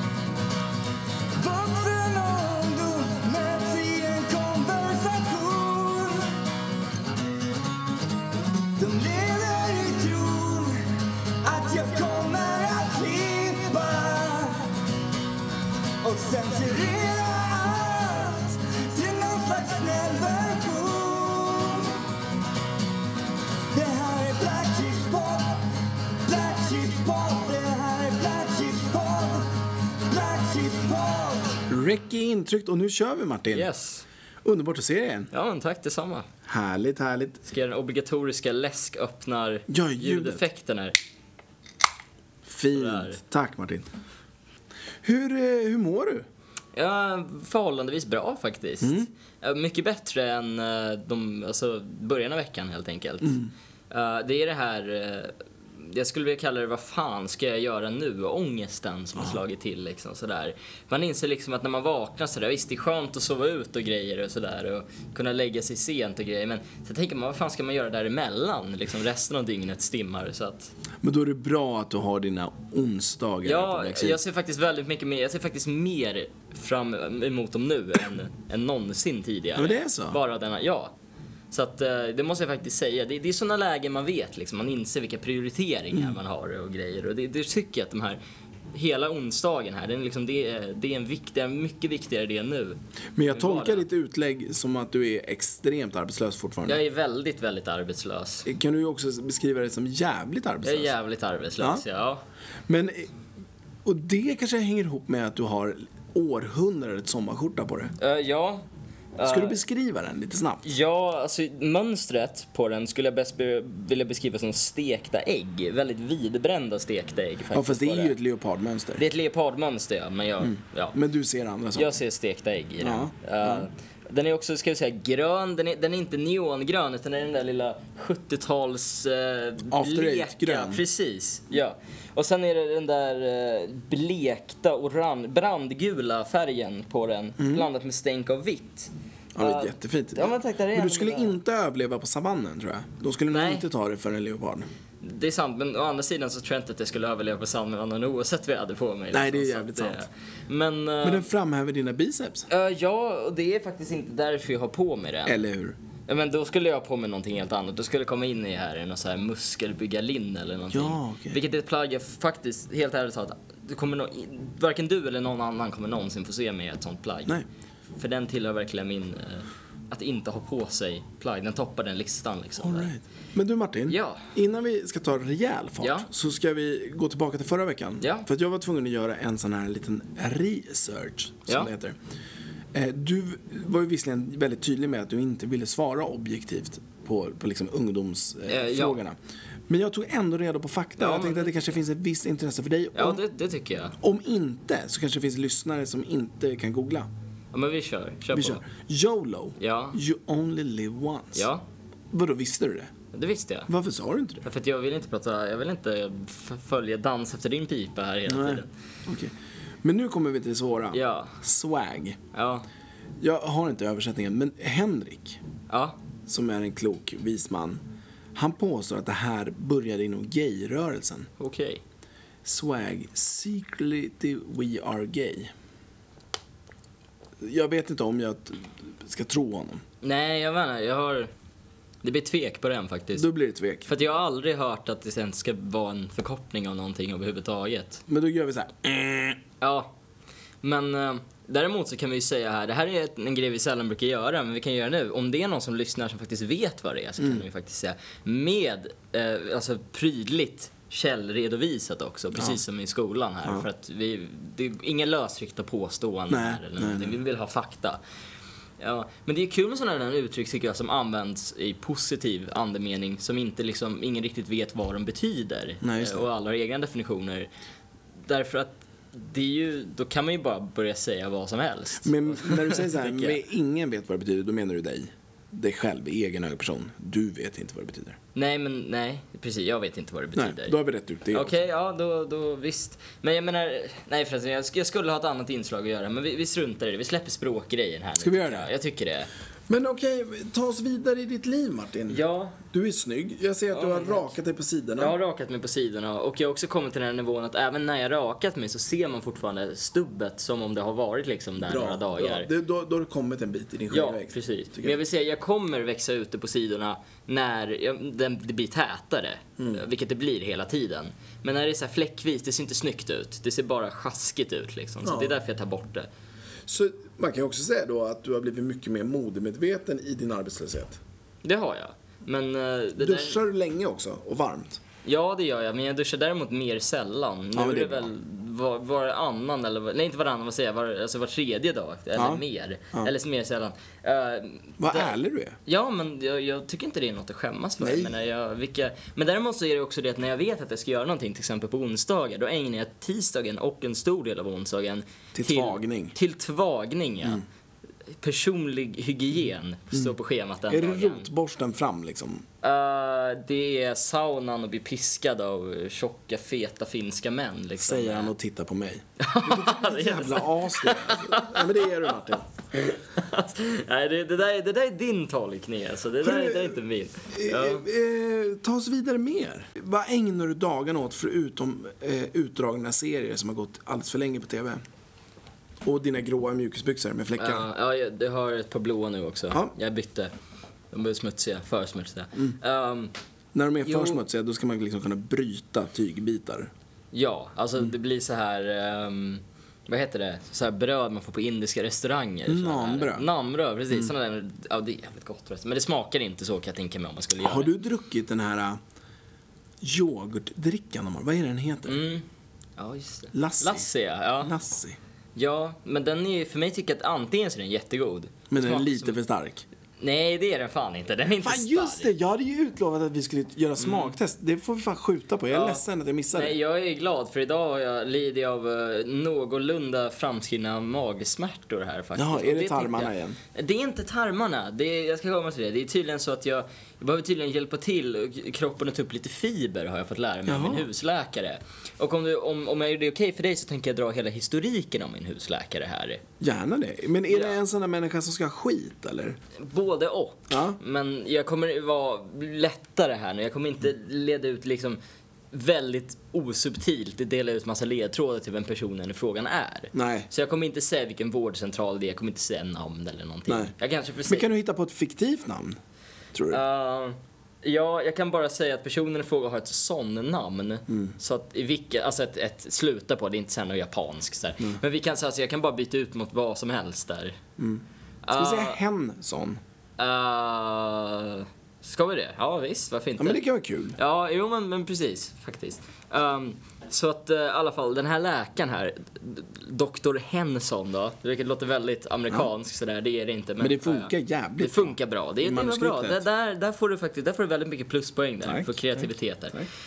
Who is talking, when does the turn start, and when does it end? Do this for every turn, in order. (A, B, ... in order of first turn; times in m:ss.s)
0:01.4-0:06.4 A
0:08.8-0:14.8 A
0:16.0-0:22.1 A
0:23.7-0:25.7 A
0:26.2-0:31.7 A
0:31.7-0:33.7 B
0:33.5-0:34.1 C
0:34.4-0:35.3 B
0:35.3-0:36.3 C
0:36.5-0:37.4 B
0:37.4-0:41.0 C
0:39.7-0:40.4 B
0:42.4-0:43.9 B
0:42.7-0:43.2 C
0:45.0-0:46.3 B
0:46.8-1:10.7 C
0:48.8-0:49.1 B
1:11.0-1:14.2 B
1:13.4-1:20.9 C
1:19.6-1:20.2 B
1:21.5-1:28.2 C
1:28.7-1:32.8 C
1:33.2-1:36.8 B
1:33.3-1:33.8 C
1:36.7-1:38.5 C
1:38.4-1:40.9 B
1:40.6-1:42.2 C
1:41.6-1:41.8 B
1:42.7-1:43.1 B
1:43.8-1:47.9 B
1:48.0-1:48.6 C
1:49.2-1:49.6 C
1:49.2-1:50.7 B
1:50.6-1:58.2 C
1:57.5-1:59.0 B
1:59.0-2:01.0 C
2:00.4-2:02.0 B
2:01.8-2:21.4 C
2:02.8-2:03.7 B
2:09.7-2:10.8 B
2:17.4-2:17.7 B
2:19.4-2:24.7 B
2:23.3-2:23.7 C
2:25.0-2:31.3 C
2:29.1-2:30.0 B
2:31.0-2:32.5 B
2:32.5-2:35.4 C
2:35.3-2:35.8 B
2:36.1-2:47.4 C
2:40.7-2:41.4 B
2:48.0-2:52.9 C
2:52.6-3:02.0 B
2:53.9-2:54.3 C
2:55.8-2:56.1 C
2:58.0-2:58.3 C
3:02.7-3:09.2 B
3:08.5-3:09.0 C
3:09.7-3:13.2 B
3:11.0-3:11.6 C
3:13.0-3:14.0 C
3:14.0-3:17.1 B
3:17.5-3:18.6 C
3:18.3-3:21.5 B
3:19.6-3:20.0 C
3:21.4-3:21.6 C
3:22.1-3:22.9 B
3:23.1-3:23.7 C
3:23.7-3:24.4 B
3:24.4-3:28.7 C
3:28.3-3:32.2 B
3:30.9-3:31.4 C
3:32.3-3:32.7 C
3:33.2-3:35.4 B
3:35.7-3:36.0 C
3:36.3-3:37.8 B
3:38.4-3:41.3 B
3:41.4-3:41.8 C
3:42.4-3:45.5 B
3:47.4-3:49.8 B
3:50.0-3:51.3 C
3:52.0-3:53.3 C
3:53.2-3:53.9 B
3:53.9-3:58.0 C
3:58.1-3:59.4 B
3:59.6-3:59.9 C
4:00.6-4:18.0 C
4:07.2-4:07.4 B
4:16.3-4:17.2 B
4:18.8-4:27.5 C
4:25.8-4:26.2 B
4:28.3-4:33.4 C
4:32.0-4:38.2 B
4:38.4-4:40.8 C
4:40.4-4:41.6 B
4:41.3-4:49.3 C
4:48.2-4:48.7 B
4:49.7-4:55.2 B
4:52.1-4:52.6 C
4:53.7-4:54.4 C
4:55.0-5:02.5 C
5:01.6-5:05.0 B
5:03.9-5:16.1 C
5:15.0-5:15.4 B
5:16.7-5:21.0 B
5:21.4-5:23.4 C
5:23.0-5:24.8 B
5:25.0-5:35.2 C
5:27.6-5:28.1 B
5:32.2-5:33.1 B
5:34.8-5:35.6 B
5:35.7-5:47.4 C
5:37.8-5:38.2 B
5:45.3-5:46.2 B
5:48.2-5:51.3 C
5:50.7-5:52.4 B
5:52.6-5:58.3 C
5:57.8-6:02.5 B
5:59.2-6:02.2 C
6:02.7-6:07.9 C
6:06.2-6:06.8 B
6:07.3-6:14.8 B
6:15.8-6:17.7 B
6:17.4-6:20.3 C
6:20.9-6:23.1 C
6:23.5-6:26.7 B
6:23.8-6:24.2 C
6:27.1-6:37.7 C
6:32.5-6:33.3 B
6:37.4-6:38.8 B
6:39.8-6:42.0 B
6:41.9-6:42.2 C
6:42.8-6:44.5 C
6:43.3-6:43.9 B
6:44.4-6:45.0 B
6:45.4-6:49.2 C
6:48.5-6:49.6 B
6:50.0-6:52.1 C
6:51.4-6:56.6 B
6:53.8-6:54.2 C
6:55.5-6:55.8 C
6:56.3-7:16.2 C
7:02.2-7:03.4 B
7:10.5-7:10.9 B
7:16.4-7:19.4 B
7:19.6-7:25.0 C
7:20.5-7:20.8 B
7:25.5-7:34.5 C
7:29.9-7:30.3 B
7:33.5-7:33.7 B
7:34.3-7:35.8 B
7:36.3-7:36.6 B
7:36.5-7:47.4 C
7:47.6-7:49.6 B
7:48.2-7:48.8 C
7:50.0-7:53.4 C
7:53.2-7:54.0 B
7:54.0-8:09.7 C
8:03.6-8:06.2 B
8:08.4-8:09.7 B